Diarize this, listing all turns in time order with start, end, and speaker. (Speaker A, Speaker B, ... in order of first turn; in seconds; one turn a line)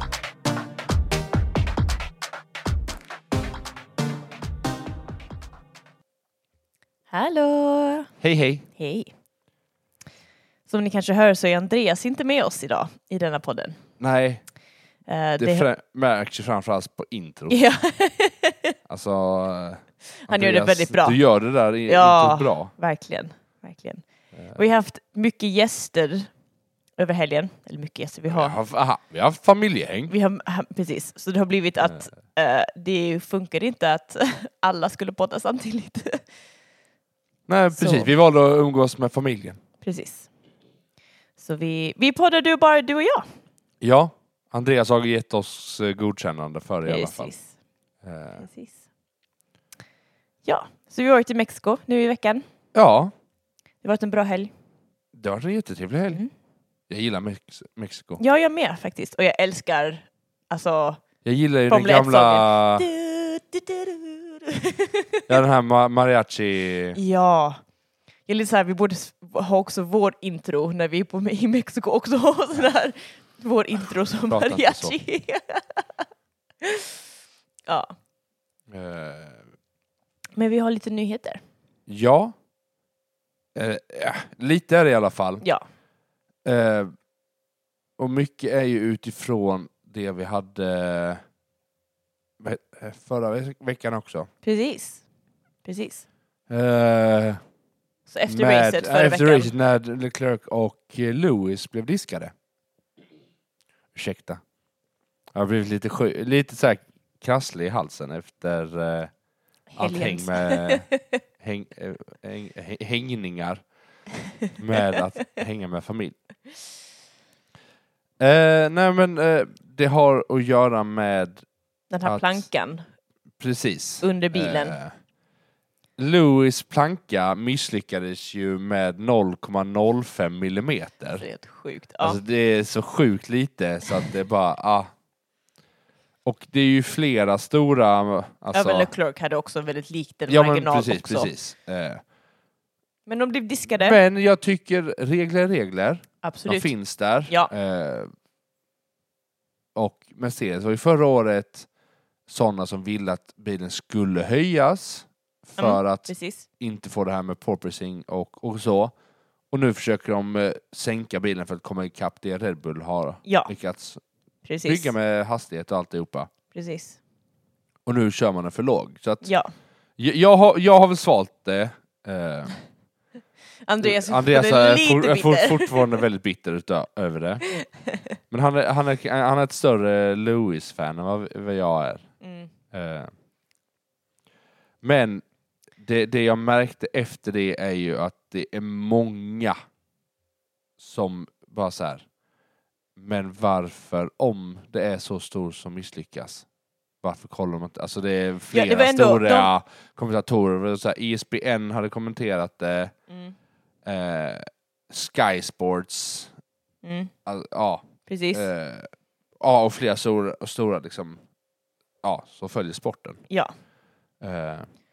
Speaker A: 7.1-8.1
Speaker B: 8.2-8.7
Speaker A: 8.8-9.1
Speaker A: 10.7-13.8
Speaker B: 14.0-14.4
Speaker A: 15.1-15.7
Speaker B: 15.4-17.6
Speaker A: 17.5-18.8
Speaker B: 18.9-22.7
Speaker A: 20.3-21.2
Speaker A: 21.9-26.3
Speaker B: 24.4-24.6
Speaker A: 27.0-28.6
Speaker B: 28.3-30.1
Speaker A: 30.1-36.2
Speaker B: 31.8-32.1
Speaker B: 37.5-39.6
Speaker A: 37.7-38.1
Speaker A: 39.8-40.3
Speaker A: 41.4-43.3
Speaker B: 43.8-47.3
Speaker A: 46.9-47.5
Speaker B: 48.0-48.4
Speaker A: 48.4-48.8
Speaker A: 50.5-52.5
Speaker B: 52.7-53.1
Speaker A: 53.8-54.5
Speaker B: 55.1-56.2
Speaker B: 56.9-58.2
Speaker A: 58.2-61.0
Speaker B: 61.2-62.9
Speaker A: 61.7-65.4
Speaker B: 65.3-67.0
Speaker A: 67.0-67.6
Speaker A: 68.3-76.0
Speaker B: 74.3-75.0
Speaker A: 76.6-76.9
Speaker A: 77.7-77.9
Speaker B: 78.7-79.4
Speaker A: 80.4-81.4
Speaker B: 81.9-82.3
Speaker B: 83.5-85.4
Speaker B: 86.5-86.9
Speaker B: 88.0-91.2
Speaker B: 92.4-94.3
Speaker A: 94.4-95.0
Speaker A: 95.6-96.0
Speaker B: 96.5-97.4
Speaker A: 98.1-99.5
Speaker B: 98.3-102.3
Speaker B: 103.9-104.4
Speaker B: 105.3-109.1
Speaker A: 109.7-111.0
Speaker B: 109.8-110.9
Speaker B: 111.4-113.6
Speaker B: 114.6-116.2
Speaker B: 118.2-121.4
Speaker A: 121.9-122.8
Speaker B: 122.0-122.5
Speaker B: 123.4-124.9
Speaker A: 124.0-124.8
Speaker B: 126.0-131.2
Speaker A: 131.2-132.2
Speaker B: 132.0-134.9
Speaker B: 136.2-138.9
Speaker A: 138.5-141.3
Speaker B: 140.3-142.0
Speaker A: 143.1-144.0
Speaker B: 143.7-148.1
Speaker A: 146.2-146.7
Speaker B: 149.8-151.7
Speaker B: 152.3-158.9
Speaker A: 155.6-156.5
Speaker B: 159.5-164.0
Speaker A: 163.2-163.5
Speaker A: 164.5-164.9
Speaker B: 164.7-166.3
Speaker A: 166.5-167.0
Speaker B: 167.9-169.3
Speaker A: 169.2-169.5
Speaker B: 170.0-172.5
Speaker A: 173.7-176.0
Speaker B: 173.8-177.4
Speaker A: 177.5-178.0
Speaker B: 178.3-182.1
Speaker A: 182.2-182.5
Speaker B: 182.7-183.1
Speaker B: 184.8-185.2
Speaker B: 185.8-189.6
Speaker B: 190.8-192.1
Speaker B: 193.0-196.4
Speaker B: 197.0-202.9
Speaker A: 198.5-199.5
Speaker A: 203.1-203.3
Speaker B: 203.8-206.3
Speaker A: 206.8-207.1
Speaker B: 207.3-208.9
Speaker A: 208.1-208.5
Speaker B: 209.4-211.2
Speaker B: 212.0-213.2
Speaker B: 214.2-214.7